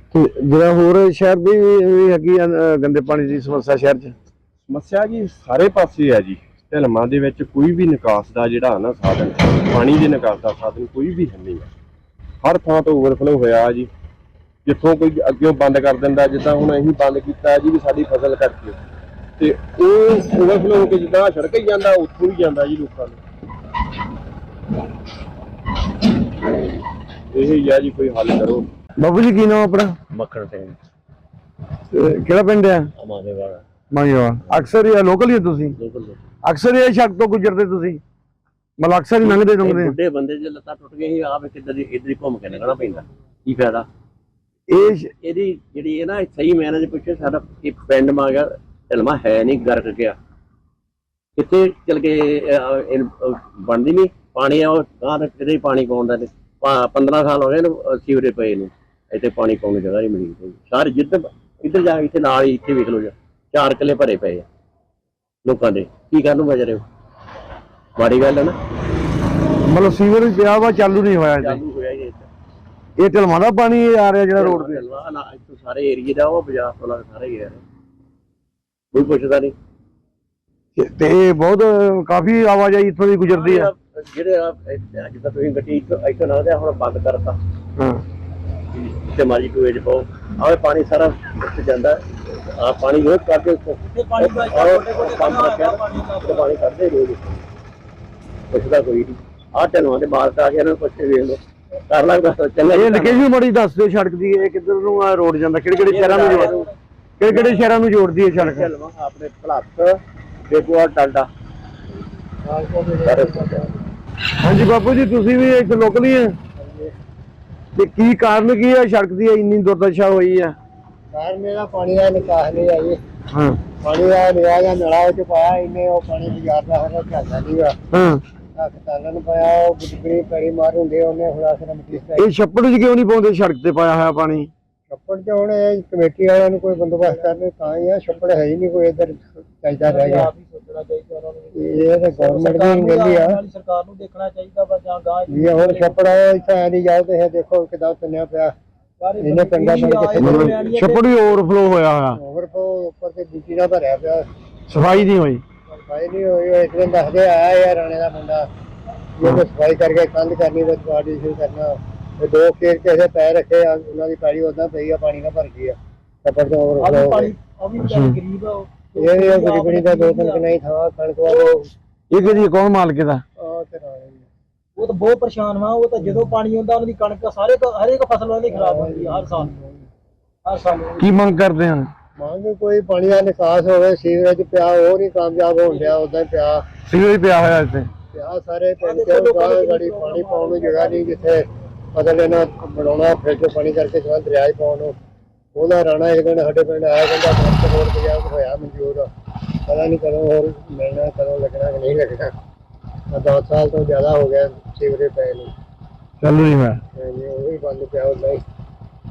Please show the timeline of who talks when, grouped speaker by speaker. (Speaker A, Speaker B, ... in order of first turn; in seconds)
Speaker A: 0.1-4.1, 29.0-30.0, 31.9-32.9, 33.9-35.8, 36.4-38.0, 38.8-40.0, 44.7-45.1, 69.7-71.6, 73.0-74.8, 80.8-83.7, 87.8-88.0, 102.7-106.5, 107.2-108.7, 114.4-116.4, 117.8-120.6, 123.3-123.6, 127.9-128.2, 132.2-134.5, 150.2-152.2, 154.7-155.4, 167.8-168.2, 172.1-173.2, 181.0-181.9, 186.9-187.9, 206.2-206.8
Speaker B: 4.7-11.7, 12.4-13.9, 14.7-18.8, 19.4-23.2, 27.3-28.7
Speaker C: 30.1-30.8, 33.0-33.6, 35.8-36.2, 39.5-43.9, 45.2-50.2, 51.4-64.5, 65.5-66.8, 68.0-68.6, 71.4-72.3, 74.4-77.6, 78.9-79.5, 83.3-87.4, 88.7-92.0, 92.6-97.4, 98.5-103.2, 105.8-106.7, 107.3-107.6, 108.4-111.3, 113.0-113.5
Speaker D: 93.9-96.5, 139.8-146.0, 149.0-151.0, 166.8-170.4, 174.8-179.5, 180.5-181.1, 188.8-191.4
Speaker E: 112.5-113.8, 116.6-116.9, 121.1-123.0, 123.8-127.8, 128.6-132.3, 134.9-140.3, 141.6-143.4, 145.3-148.5, 149.2-150.7, 152.2-154.3, 155.9-158.5, 159.2-167.3, 169.0-171.7, 173.4-174.3, 178.5-179.8, 182.2-186.7, 188.1-195.0, 195.6-199.1, 199.7-202.3, 203.1-205.5, 207.0-208.4